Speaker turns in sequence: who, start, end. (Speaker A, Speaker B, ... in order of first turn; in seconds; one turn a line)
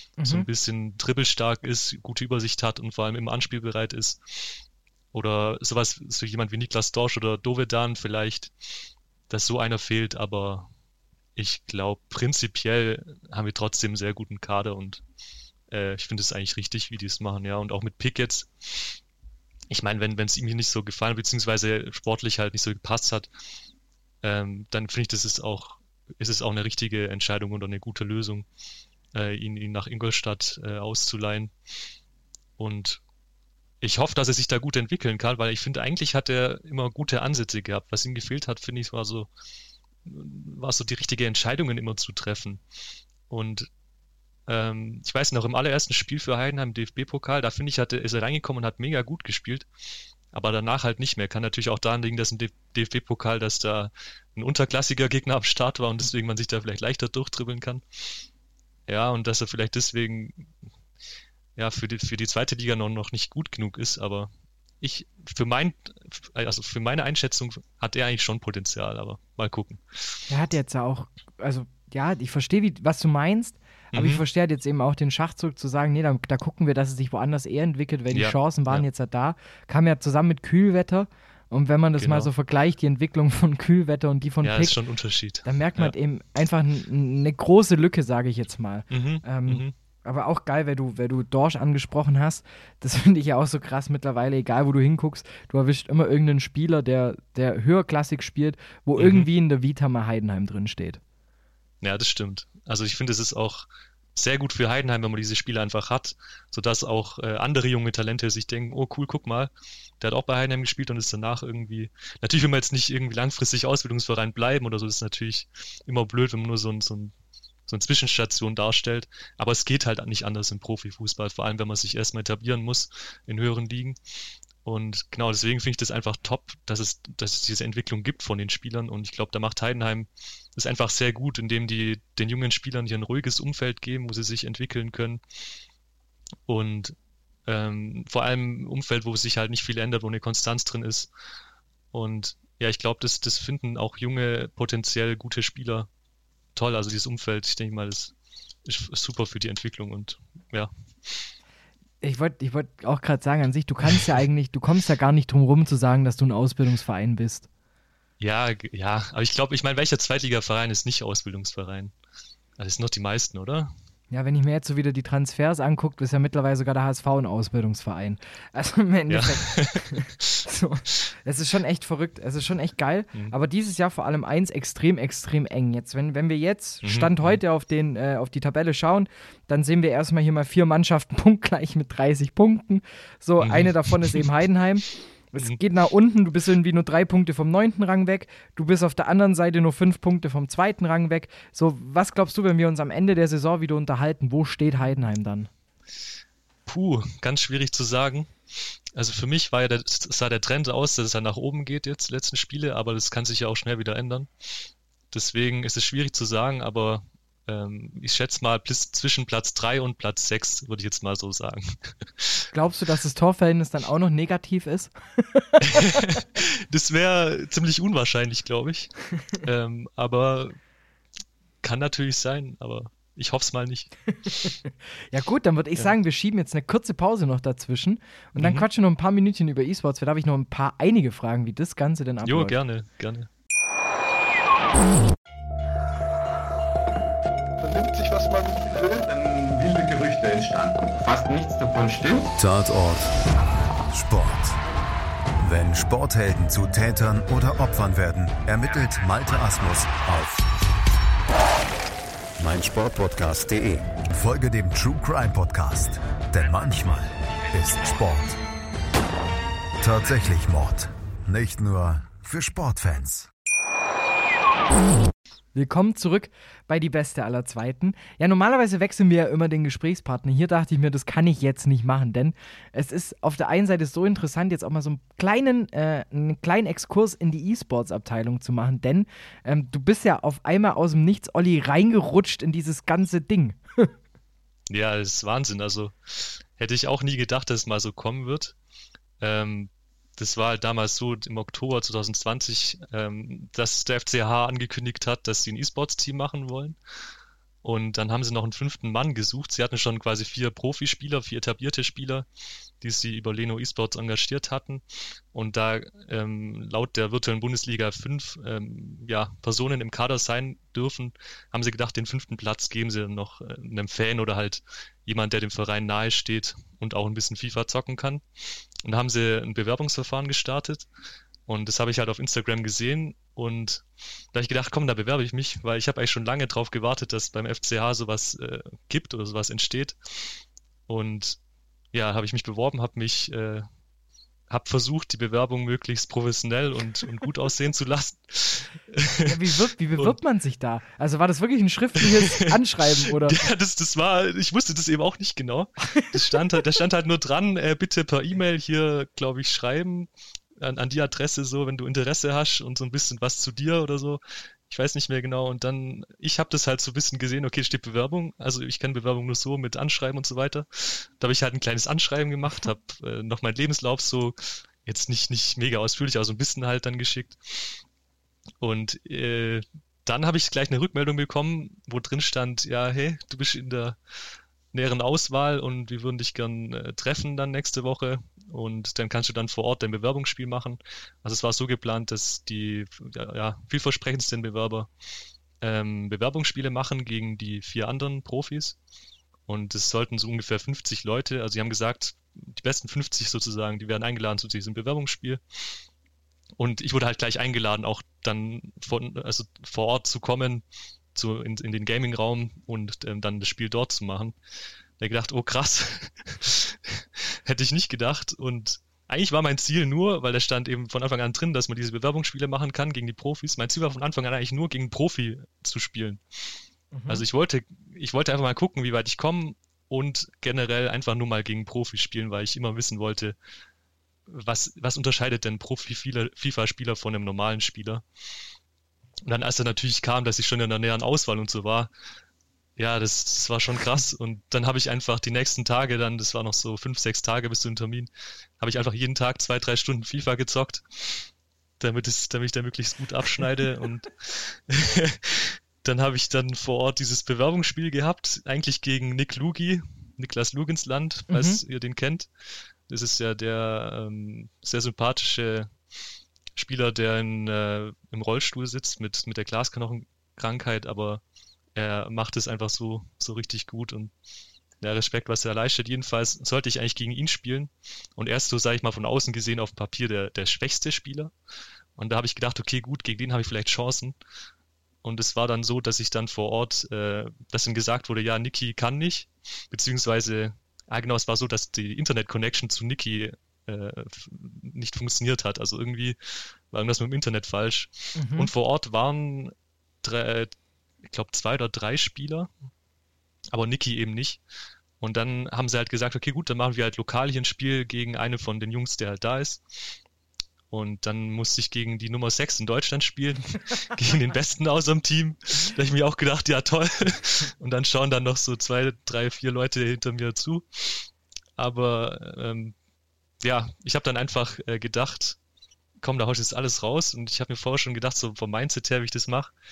Speaker A: 0.2-0.5
Speaker B: 0.2-8.5
Speaker B: 9.3-10.7
Speaker B: 11.4-15.0
Speaker B: 15.7-19.0
Speaker B: 19.7-23.3
Speaker B: 24.2-28.5
Speaker B: 29.1-31.5
Speaker B: 32.6-33.0
Speaker B: 33.8-39.3
Speaker B: 40.0-42.6
Speaker B: 43.3-43.7
Speaker B: 44.5-49.7
Speaker B: 50.3-58.2
Speaker B: 58.9-60.5
Speaker B: 61.6-64.3
Speaker B: 64.8-70.2
Speaker A: 70.3-84.8
Speaker B: 73.9-74.2
Speaker B: 78.1-78.9
Speaker B: 82.0-82.3
Speaker B: 84.4-85.9
Speaker A: 85.5-101.0
Speaker B: 88.9-89.7
Speaker B: 99.0-99.3
Speaker B: 101.8-117.1
Speaker B: 117.7-124.0
Speaker B: 124.6-135.2
Speaker B: 136.5-137.0
Speaker B: 137.5-141.1
Speaker B: 141.9-145.9
Speaker B: 146.6-148.1
Speaker B: 148.7-151.3
Speaker A: 152.0-157.5
Speaker B: 158.2-161.9
Speaker B: 162.6-163.7
Speaker A: 164.1-195.5
Speaker B: 169.1-170.3
Speaker B: 176.8-177.4
Speaker B: 183.4-184.3
Speaker B: 196.7-198.3
Speaker B: 198.9-212.4
Speaker A: 212.5-215.8
Speaker B: 215.6-220.6
Speaker B: 221.6-224.5
Speaker A: 225.1-232.6
Speaker B: 228.4-228.7
Speaker B: 232.2-233.3
Speaker C: 237.6-242.3
Speaker D: 242.4-243.1
Speaker D: 243.9-244.6
Speaker D: 245.4-250.5
Speaker D: 252.4-258.4
Speaker D: 259.8-263.3
Speaker A: 265.6-283.9
Speaker B: 284.7-288.6
Speaker B: 289.2-296.8
Speaker B: 297.6-302.3
Speaker B: 302.8-318.2
Speaker B: 318.8-320.9
Speaker B: 321.5-331.4
Speaker B: 331.9-333.7
Speaker B: 334.5-339.5
Speaker A: 339.2-343.4
Speaker B: 342.0-367.8
Speaker B: 368.6-374.0
Speaker B: 374.7-384.9
Speaker B: 385.6-388.8
Speaker B: 389.5-395.7
Speaker B: 396.6-400.6
Speaker B: 401.1-404.4
Speaker B: 405.0-416.2
Speaker A: 416.9-417.2
Speaker B: 417.1-423.4
Speaker B: 424.3-428.0
Speaker B: 429.2-431.9
Speaker B: 432.8-452.3
Speaker A: 451.3-451.6
Speaker B: 452.9-455.7
Speaker B: 456.6-461.2
Speaker B: 461.8-464.1
Speaker B: 464.8-471.3
Speaker B: 472.0-474.2
Speaker B: 475.0-492.5
Speaker A: 488.2-488.5
Speaker B: 493.5-494.4
Speaker B: 495.0-500.0
Speaker B: 500.7-512.8
Speaker B: 513.4-515.4
Speaker B: 516.0-519.5